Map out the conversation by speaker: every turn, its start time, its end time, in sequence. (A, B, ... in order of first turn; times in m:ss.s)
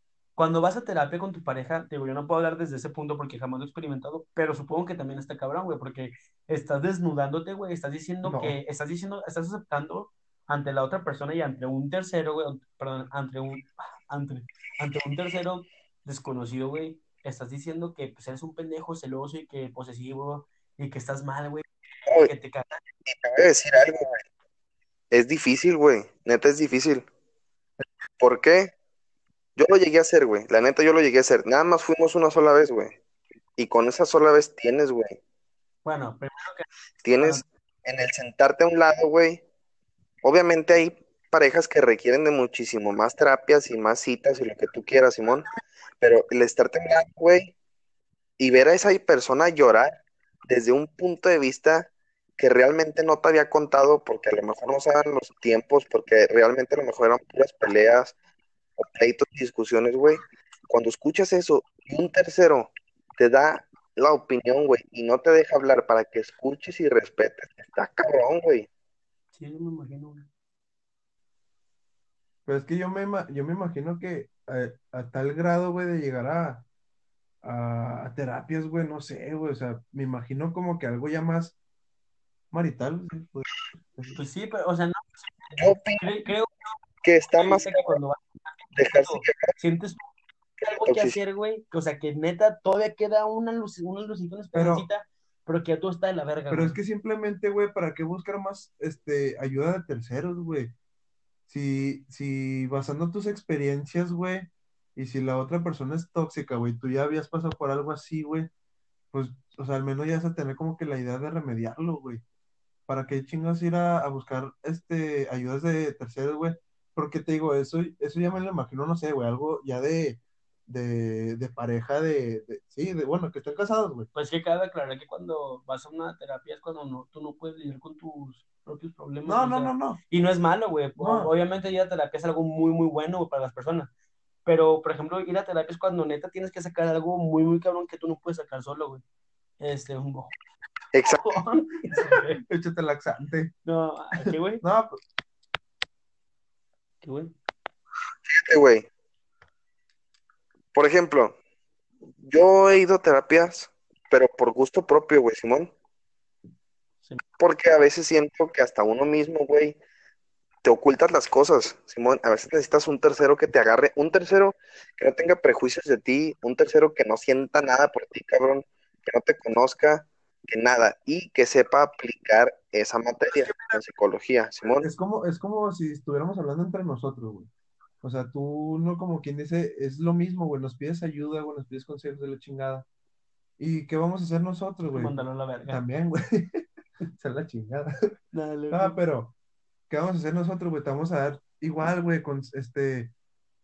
0:00.4-0:22.8 A
0:08.2-0:08.6 B
0:22.1-0:22.3 C
0:23.1-0:24.2 C
0:25.1-0:27.0 C
0:28.2-0:28.7 C
0:29.6-0:33.0 C
0:33.6-0:35.2 C
0:35.8-0:36.7 A
0:37.0-0:39.4 C
0:40.2-0:45.5 C
0:46.0-0:47.5 C
0:48.4-0:58.1 C
0:58.8-1:08.7 C
1:09.4-1:10.3 A
1:12.4-1:16.6 B
1:17.4-1:21.6 B
1:22.5-1:24.2 B
1:24.1-1:26.8 A
1:25.6-1:26.0 C
1:27.0-1:28.0 C
1:27.3-1:30.1 A
1:28.8-1:29.5 C
1:30.6-1:31.2 C
1:30.6-1:36.8 A
1:34.5-1:34.9 B
1:36.5-1:40.7 B
1:41.5-1:48.5 B
1:49.1-1:52.2 B
1:52.9-2:04.1 B
2:04.1-2:13.9 A
2:09.2-2:10.0 B
2:11.0-2:11.3 B
2:14.4-2:19.0 A
2:19.6-2:20.3 A
2:20.9-2:21.4 C
2:21.1-2:22.4 A
2:22.4-2:23.5 B
2:23.6-2:24.6 A
2:24.2-2:25.0 B
2:27.0-2:27.3 A
2:28.2-2:28.8 C
2:30.7-2:31.3 C
2:32.2-2:35.7 C
2:37.4-2:39.8 C
2:40.6-2:54.9 C
2:53.3-2:53.8 B
2:54.8-2:57.5 B
2:58.0-3:02.8 B
3:03.6-3:05.1 B
3:04.9-3:05.8 A
3:05.7-3:06.6 B
3:07.2-3:07.9 B
3:08.3-3:09.0 A
3:08.7-3:09.3 B
3:09.9-3:13.1 B